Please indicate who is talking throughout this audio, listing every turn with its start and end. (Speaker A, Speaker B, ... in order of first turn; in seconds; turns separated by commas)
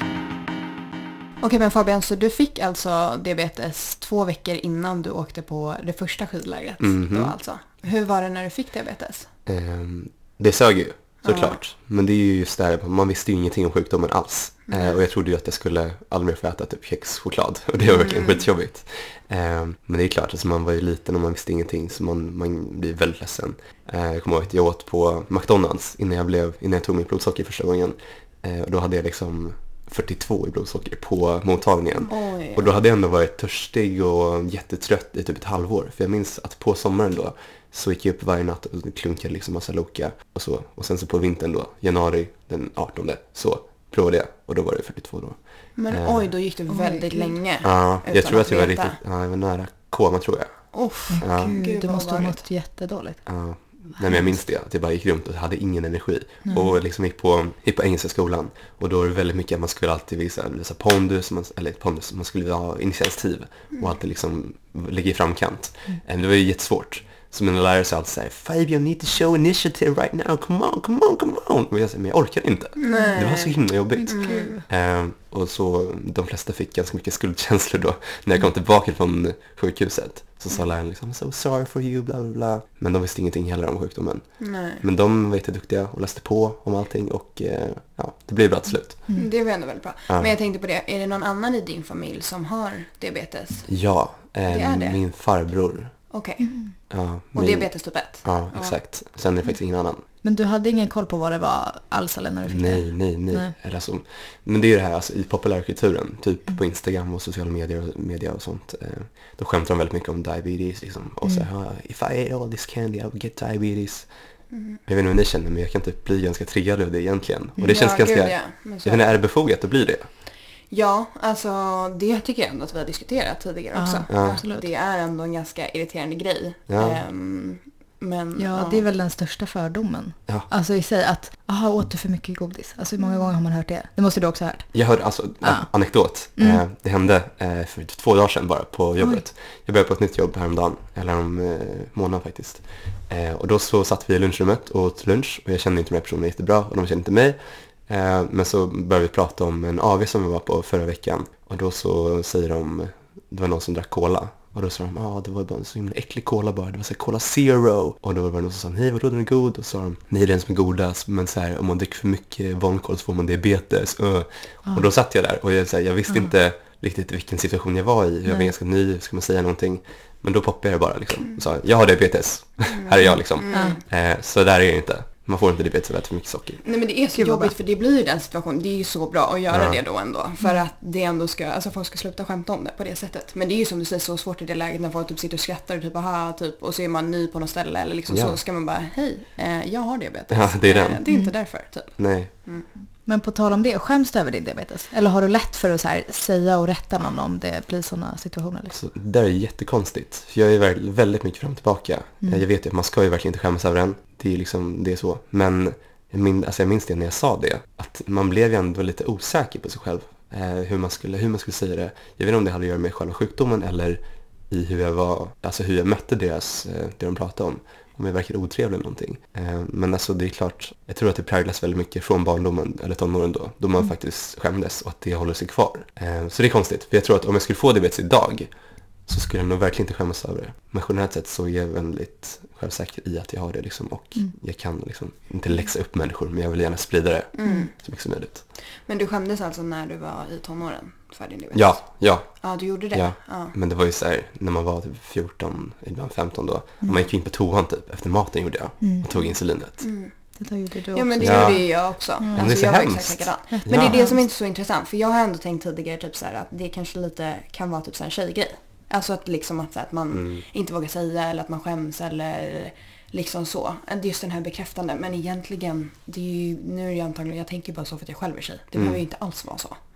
Speaker A: 1.4-9.3, Speaker B: 6.8-7.4, Speaker B: 9.5-46.3, Speaker A: 11.2-11.6, Speaker A: 14.7-15.0, Speaker A: 17.8-18.5, Speaker A: 32.1-32.7, Speaker A: 45.8-49.0, Speaker C: 46.7-47.4, Speaker B: 47.6-51.6, Speaker A: 50.7-52.4, Speaker C: 51.1-53.3, Speaker B: 53.3-89.4, Speaker C: 54.0-54.4, Speaker C: 56.4-56.7, Speaker A: 72.8-74.6, Speaker C: 72.9-73.2, Speaker C: 73.9-74.6, Speaker A: 84.4-84.8, Speaker A: 89.1-95.1, Speaker B: 90.1-90.3, Speaker B: 93.7-96.1, Speaker A: 96.1-98.8, Speaker C: 96.4-96.7, Speaker B: 96.9-100.0, Speaker C: 100.1-103.5, Speaker B: 102.5-120.1, Speaker A: 114.5-114.8, Speaker C: 117.6-117.8, Speaker A: 117.6-119.1, Speaker A: 120.6-128.9, Speaker C: 123.7-124.7, Speaker B: 124.1-124.4, Speaker B: 126.7-127.0, Speaker C: 128.4-136.6, Speaker A: 133.0-133.4, Speaker B: 134.7-176.7, Speaker C: 139.0-139.2, Speaker A: 172.7-173.8, Speaker C: 173.5-173.8, Speaker A: 176.6-192.7, Speaker C: 177.2-177.6, Speaker B: 179.5-179.8, Speaker B: 188.1-188.4, Speaker B: 190.3-191.1, Speaker C: 191.1-191.3, Speaker B: 192.0-192.3, Speaker C: 193.0-198.8, Speaker B: 198.7-238.4, Speaker A: 237.3-243.5, Speaker B: 241.5-249.9, Speaker C: 248.8-249.1, Speaker A: 249.1-269.8, Speaker C: 250.4-252.6, Speaker B: 251.2-254.1, Speaker C: 253.5-254.2, Speaker B: 260.1-260.4, Speaker B: 268.8-269.0